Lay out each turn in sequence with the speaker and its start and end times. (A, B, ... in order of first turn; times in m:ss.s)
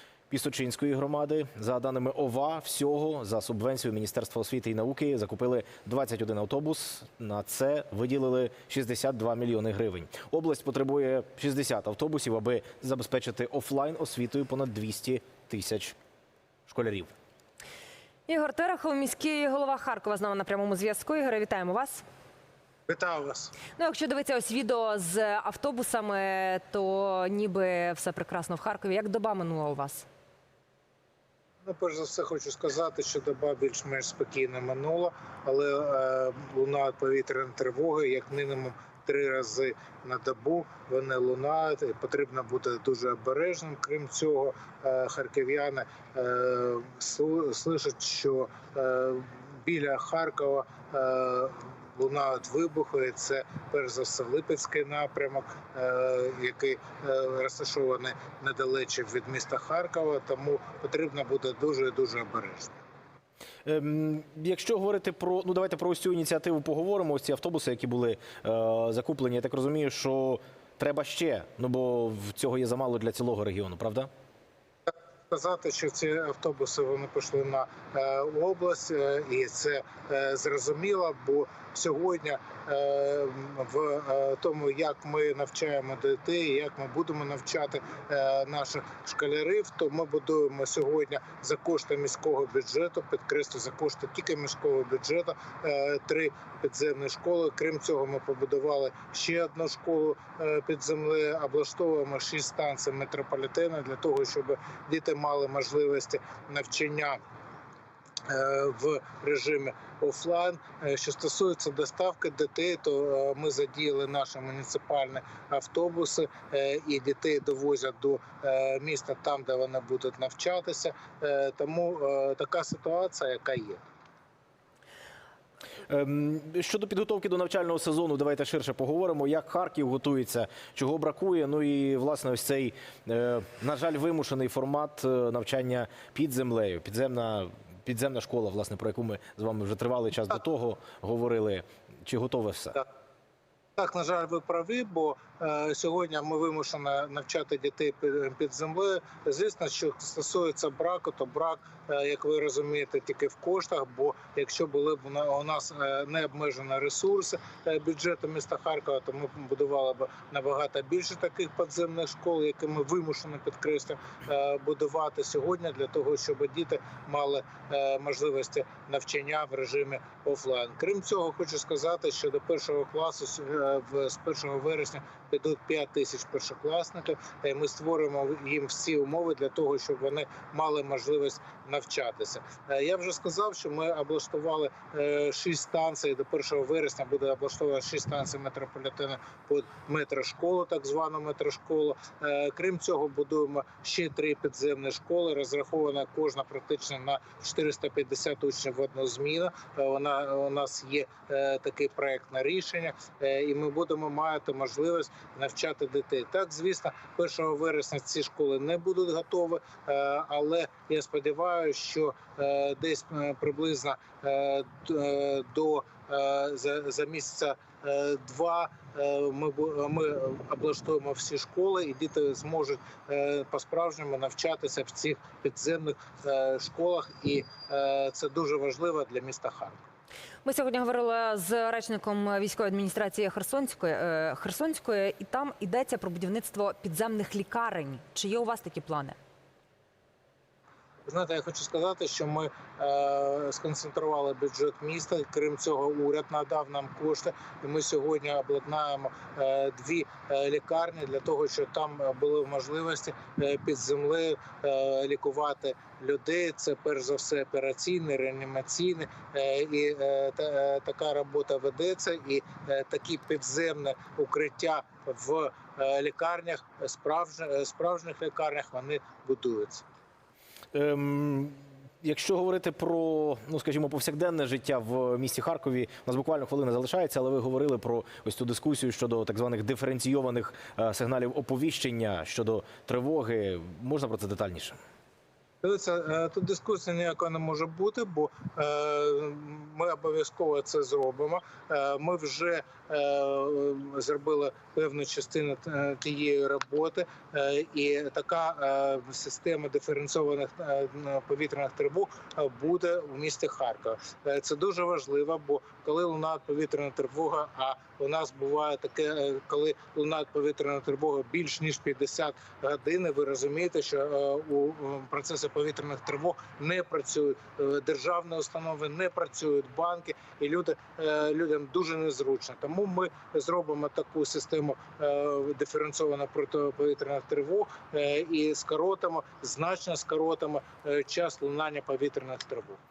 0:00.3-0:16.0 A
0:16.7-0:17.1 A
0:18.3-0:22.0 B
0:22.9-0:23.6 C
0:23.8-0:30.0 B
0:31.6-1:02.7 C
1:03.6-1:14.1 A
1:15.3-1:47.2 C
1:48.2-2:03.8 C
2:05.9-2:22.8 A
2:23.8-3:49.8 C
3:50.4-3:59.2 B
4:01.1-4:29.8 C
4:30.7-4:44.8 A
4:45.6-5:32.8 C